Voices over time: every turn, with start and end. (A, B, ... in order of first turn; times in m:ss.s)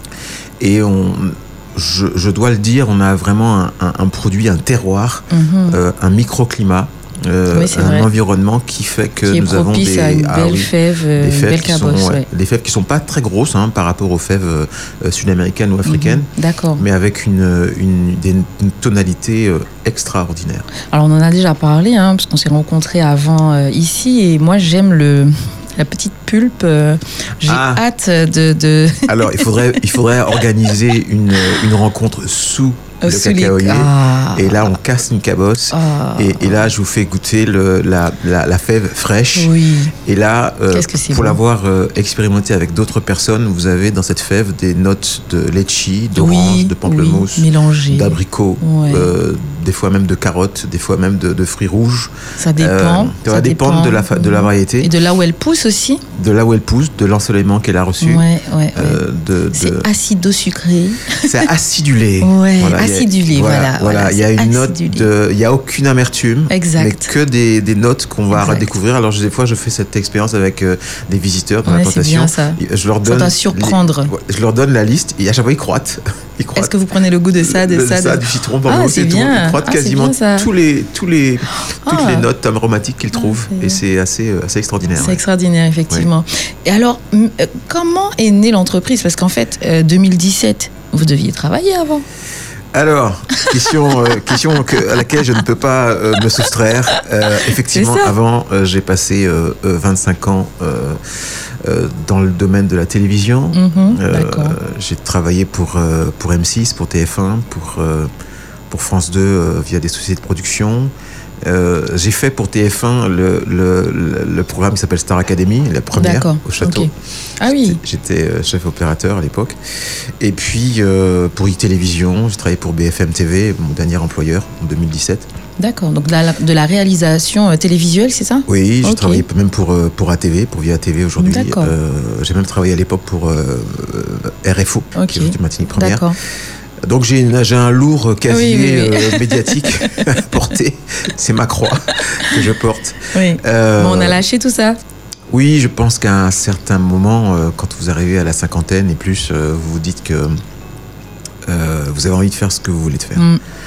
0:00.6-0:20.7 A
0:05.3-0:05.8 B
0:07.5-0:08.1 B
0:09.2-0:12.2 B
0:15.8-0:16.8 B
0:20.9-0:29.4 B
0:27.4-0:27.8 A
0:29.1-0:54.9 A
0:33.0-0:34.6 B
0:35.7-0:36.7 B
0:39.3-0:39.9 B
0:40.7-0:41.4 B
0:46.1-0:49.1 B
0:52.4-0:56.0 B
0:56.1-0:59.9 A
0:58.0-0:59.0 B
0:59.5-1:01.4 B
1:01.2-1:16.7 A
1:02.2-1:05.1 B
1:06.5-1:07.1 B
1:08.3-1:08.7 B
1:11.6-1:14.1 B
1:16.6-1:20.5 B
1:17.4-1:25.2 A
1:21.7-1:22.3 B
1:23.1-1:23.8 B
1:25.0-1:32.0 B
1:32.7-1:41.0 A
1:37.7-1:38.1 B
1:41.6-1:48.1 A
1:43.5-1:44.6 B
1:48.7-1:50.9 A
1:51.4-1:56.9 A
1:55.9-1:57.8 B
1:57.4-2:05.3 A
2:05.6-2:09.2 B
2:08.5-2:16.1 A
2:11.2-2:11.7 B
2:14.9-2:16.2 B
2:16.8-2:24.2 A
2:18.3-2:20.0 B
2:23.1-2:24.8 B
2:25.3-2:30.4 A
2:31.4-2:33.3 A